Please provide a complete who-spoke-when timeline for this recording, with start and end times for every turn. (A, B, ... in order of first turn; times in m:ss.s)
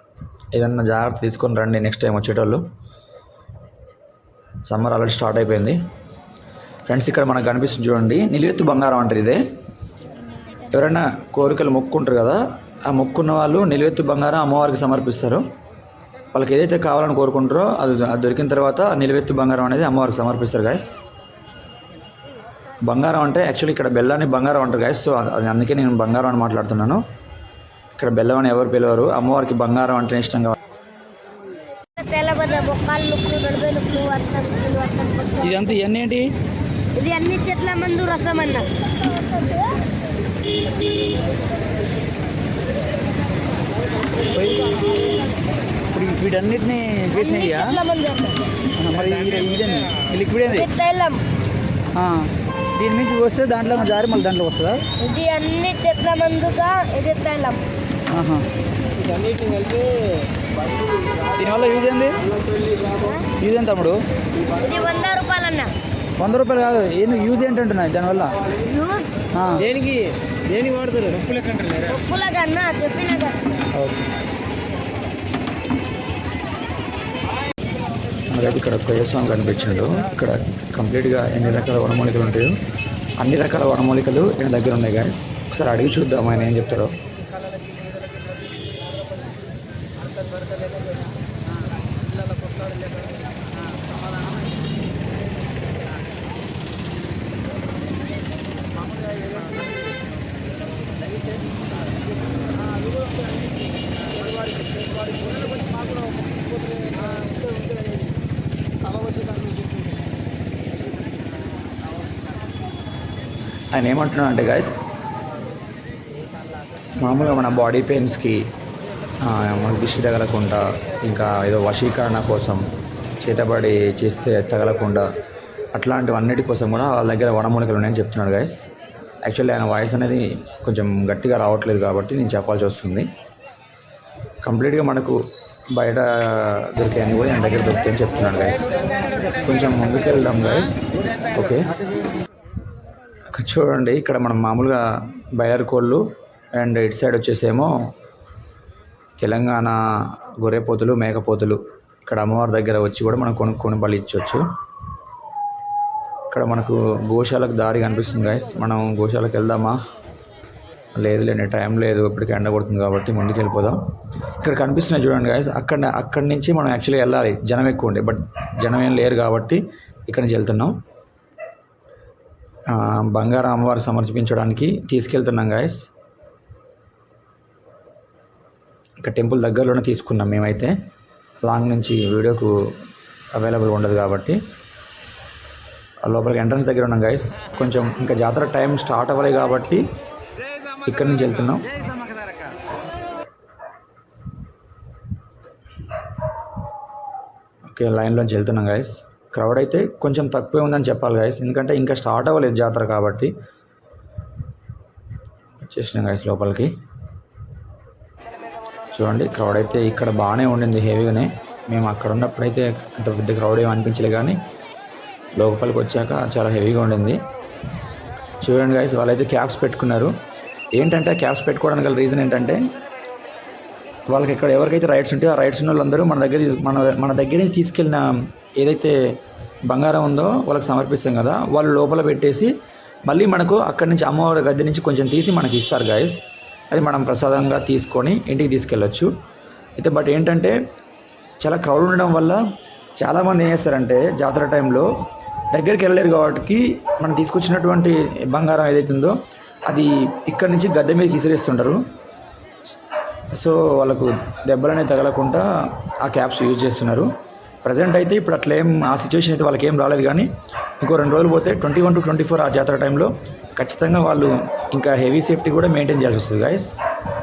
0:00.5-0:02.6 A
0:04.6-0:05.8 A
0:06.9-0:09.4 A
0:10.7-0:15.4 A
0:16.3-0:21.0 A
0:22.8-0:27.0 A
0:28.0-0:30.6 A
0:32.0-0:35.8 B
0:35.4-0:36.2 A
0:36.9-0:38.7 B
0:45.9-0:47.7 A
0:46.0-0:46.3 C
0:47.1-0:48.6 B
0:48.8-0:50.5 A
0:48.8-0:50.4 C
0:50.4-0:51.2 B
0:52.0-0:52.3 A
0:52.8-0:54.8 A
0:53.2-0:54.8 C
0:54.9-0:57.6 B
0:58.1-0:58.4 A
1:01.4-1:02.2 A
1:01.4-1:01.9 C
1:02.9-1:03.3 B
1:03.4-1:04.0 A
1:04.5-1:05.7 B
1:06.2-1:08.3 A
1:06.8-1:07.5 C
1:08.5-1:09.3 B
1:09.4-1:09.7 A
1:10.6-1:11.2 C
1:11.8-1:13.7 B
1:18.3-1:22.6 A
1:23.2-1:27.0 A
1:53.7-1:54.8 A
1:57.0-1:58.4 A
1:59.2-2:02.6 A
2:03.2-2:05.0 A
2:05.7-2:08.6 A
2:09.2-2:13.1 A
2:14.4-2:15.2 A
2:15.8-2:18.7 A
2:19.4-2:20.7 A
2:21.3-2:21.7 A
2:23.3-2:24.8 A
2:25.4-2:26.0 A
2:26.6-2:27.8 A
2:29.2-2:34.4 A
2:36.3-2:39.8 A
2:41.0-2:43.8 A
2:44.4-2:50.8 A
2:52.7-2:55.8 A
2:59.0-3:00.7 A
3:01.4-3:02.5 A
3:03.3-3:04.4 A
3:06.0-3:09.8 A
3:10.8-3:11.8 A
3:17.7-3:23.3 A
3:25.6-3:26.7 A
3:28.9-3:34.4 A
3:35.4-3:37.2 A
3:38.4-3:40.1 A
3:40.8-3:42.6 A
3:44.1-3:49.2 A
3:49.7-3:52.5 A
3:53.1-3:56.2 A
3:56.7-3:59.1 A
3:59.8-4:00.6 A
4:01.4-4:02.4 A
4:03.0-4:04.9 A
4:05.5-4:09.2 A
4:09.7-4:11.8 A
4:13.4-4:15.5 A
4:16.0-4:17.1 A
4:17.6-4:20.3 A
4:20.8-4:26.7 A